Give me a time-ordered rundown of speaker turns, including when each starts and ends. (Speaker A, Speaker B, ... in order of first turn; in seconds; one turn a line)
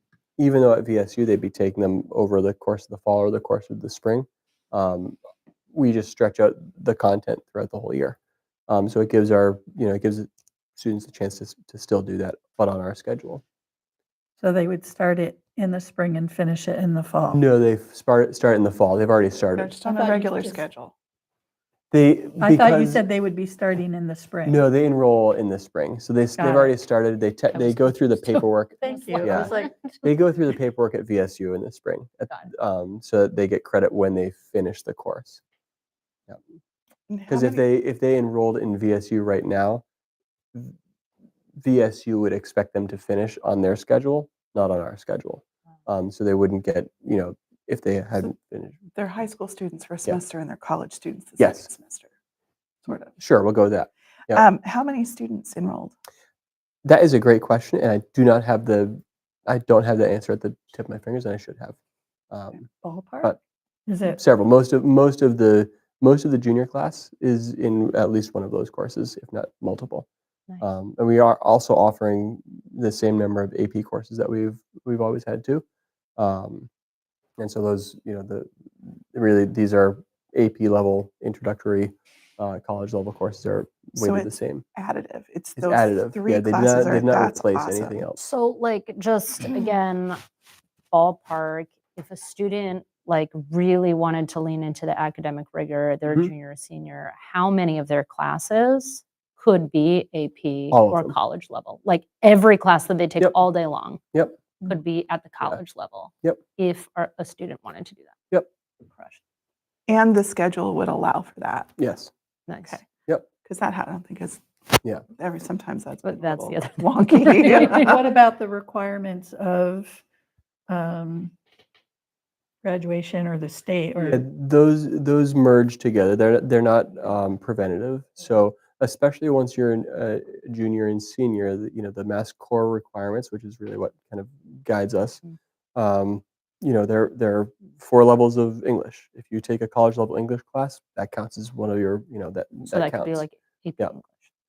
Speaker A: 0.4-5.2
Speaker A: 5.7-8.2
Speaker A: 8.7-13.4
Speaker B: 14.4-17.4
Speaker A: 17.3-19.7
Speaker C: 19.5-20.9
Speaker B: 19.9-20.6
Speaker A: 21.9-23.0
Speaker B: 22.4-24.6
Speaker A: 24.4-35.4
Speaker B: 26.4-26.7
Speaker D: 27.5-30.0
Speaker B: 28.8-29.7
Speaker C: 37.1-37.6
Speaker A: 37.3-39.8
Speaker A: 41.6-48.8
Speaker C: 49.0-52.1
Speaker A: 51.4-51.7
Speaker C: 52.8-53.1
Speaker A: 53.2-54.4
Speaker C: 54.3-55.9
Speaker A: 56.8-61.8
Speaker A: 62.3-62.7
Speaker B: 62.7-63.3
Speaker B: 63.9-64.2
Speaker A: 64.2-70.1
Speaker A: 70.6-75.6
Speaker A: 76.2-76.7
Speaker A: 77.4-78.5
Speaker A: 79.1-84.6
Speaker C: 84.0-88.0
Speaker A: 85.6-88.2
Speaker D: 88.2-90.2
Speaker D: 90.9-104.0
Speaker A: 100.7-101.2
Speaker D: 104.6-108.2
Speaker C: 109.9-111.7
Speaker A: 111.8-112.1
Speaker D: 112.5-112.8
Speaker C: 113.4-114.4
Speaker C: 115.1-118.0
Speaker D: 116.0-118.0
Speaker B: 117.5-120.0
Speaker B: 120.7-121.3
Speaker B: 122.6-124.2
Speaker A: 124.1-135.2
Speaker A: 135.8-143.2
Speaker D: 142.7-144.3